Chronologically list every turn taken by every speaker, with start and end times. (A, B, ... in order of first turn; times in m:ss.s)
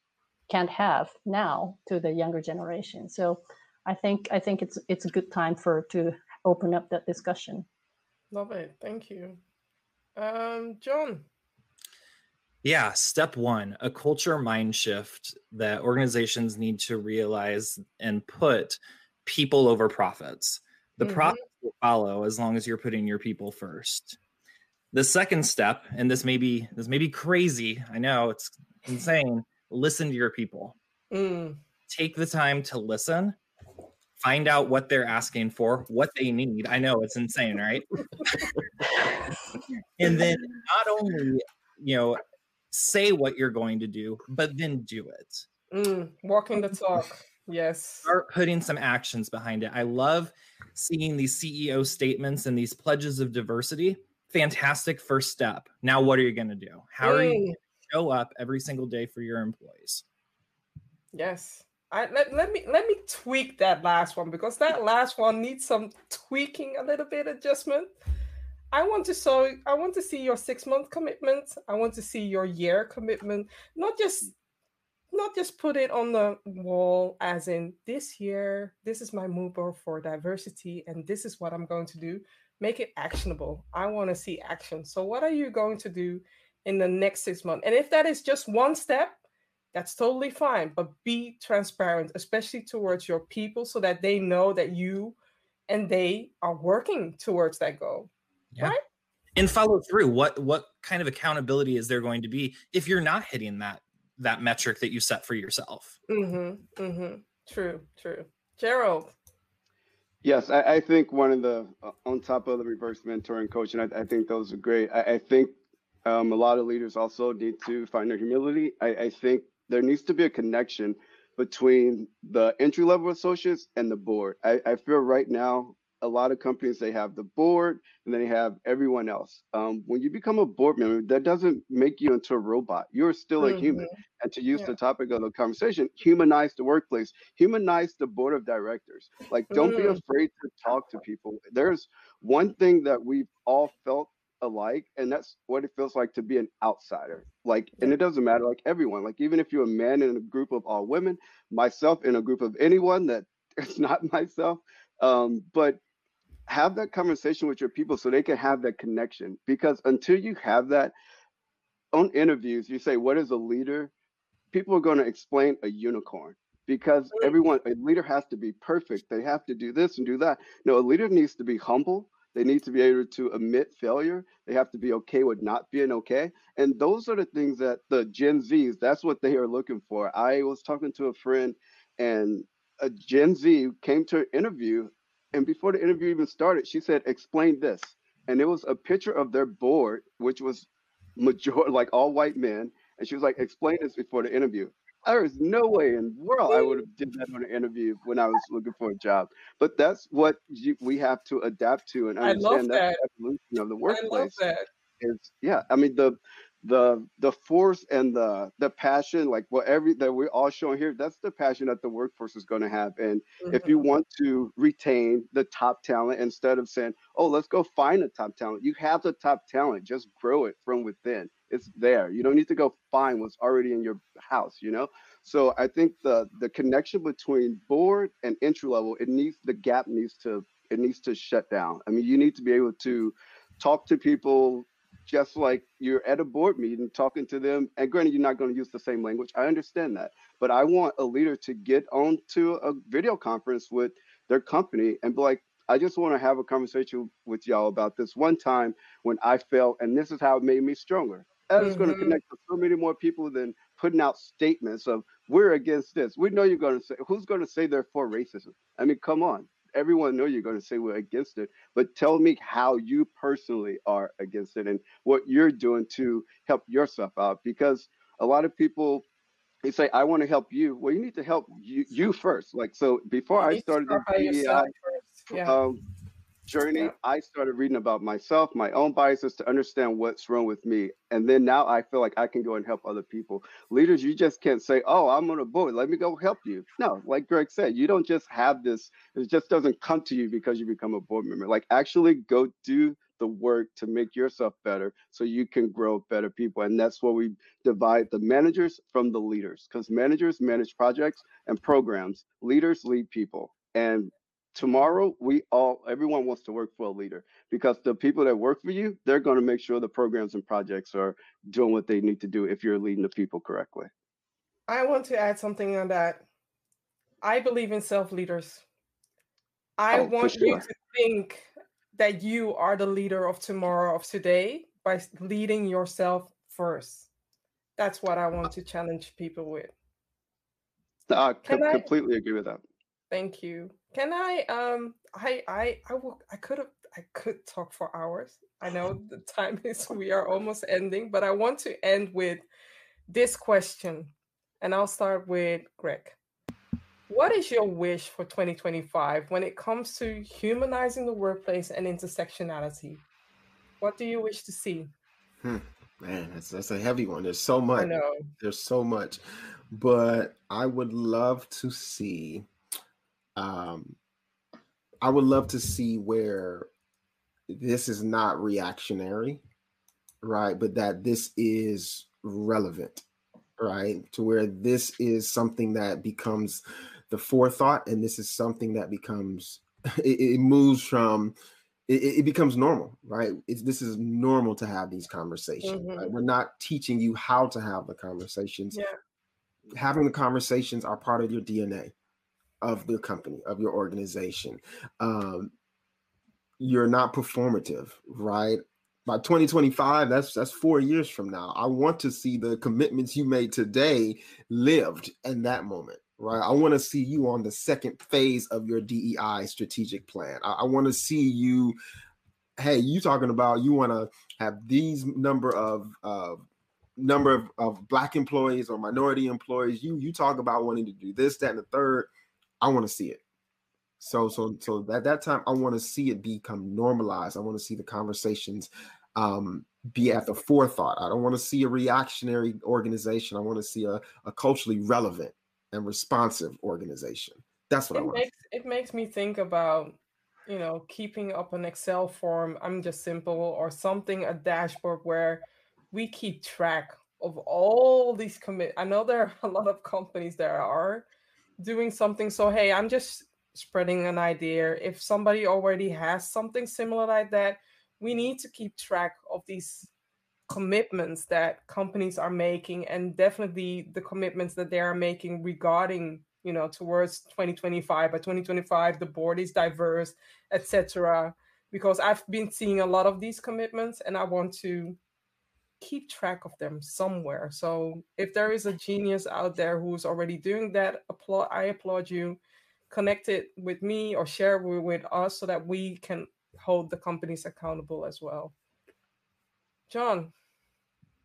0:00.5-0:07.7 A
0:08.3-0:09.4 B
0:10.2-0:11.3 B
0:12.6-0:24.2 C
0:21.0-0:21.4 B
0:24.9-0:30.8 C
0:31.1-0:31.6 B
0:31.9-0:33.4 C
0:34.2-0:39.0 C
0:40.0-0:45.5 C
0:45.7-0:48.1 B
0:48.0-1:00.0 C
0:57.0-0:57.6 B
1:01.1-1:07.9 B
1:08.7-1:14.3 B
1:15.1-1:29.2 B
1:29.7-1:35.2 B
1:35.7-1:38.8 B
1:39.4-1:46.0 C
1:46.1-1:49.2 B
1:50.2-2:35.8 D
2:13.4-2:13.9 B
2:19.5-2:20.0 B
2:36.5-2:40.9 D
2:41.9-2:43.9 D
2:44.5-3:24.4 D
3:16.5-3:16.8 B
3:22.2-3:23.0 B
3:23.9-3:24.6 B
3:25.0-4:29.0 D
3:33.4-3:33.8 B
4:11.6-4:12.2 B
4:29.6-4:34.7 D
4:33.5-4:35.6 B
4:35.3-4:35.8 D
4:36.5-5:13.9 D
5:14.7-5:16.2 B
5:17.2-5:18.6 B
5:19.8-5:27.1 B
5:19.9-5:20.6 D
5:27.8-5:29.7 B
5:31.1-5:32.6 D
5:31.4-5:31.9 B
5:33.1-5:42.4 B
5:43.1-5:46.2 B
5:47.1-5:53.0 B
5:53.8-5:54.9 B
5:55.4-5:59.2 E
5:57.8-5:58.3 B
5:59.7-6:02.4 E
6:03.4-6:04.0 E
6:05.0-6:06.7 E
6:07.5-6:09.4 E
6:10.2-6:13.0 E
6:13.6-6:21.3 E
6:21.9-6:28.8 E
6:25.6-6:26.1 B
6:29.8-6:31.9 E
6:32.6-6:35.5 E
6:36.6-6:51.8 E
6:52.6-6:56.5 E
6:57.0-7:03.2 E
7:04.0-7:18.3 E
7:18.0-7:31.1 B
7:31.6-7:39.9 B
7:40.5-7:55.0 B
7:55.8-8:08.5 B
8:09.9-8:10.3 B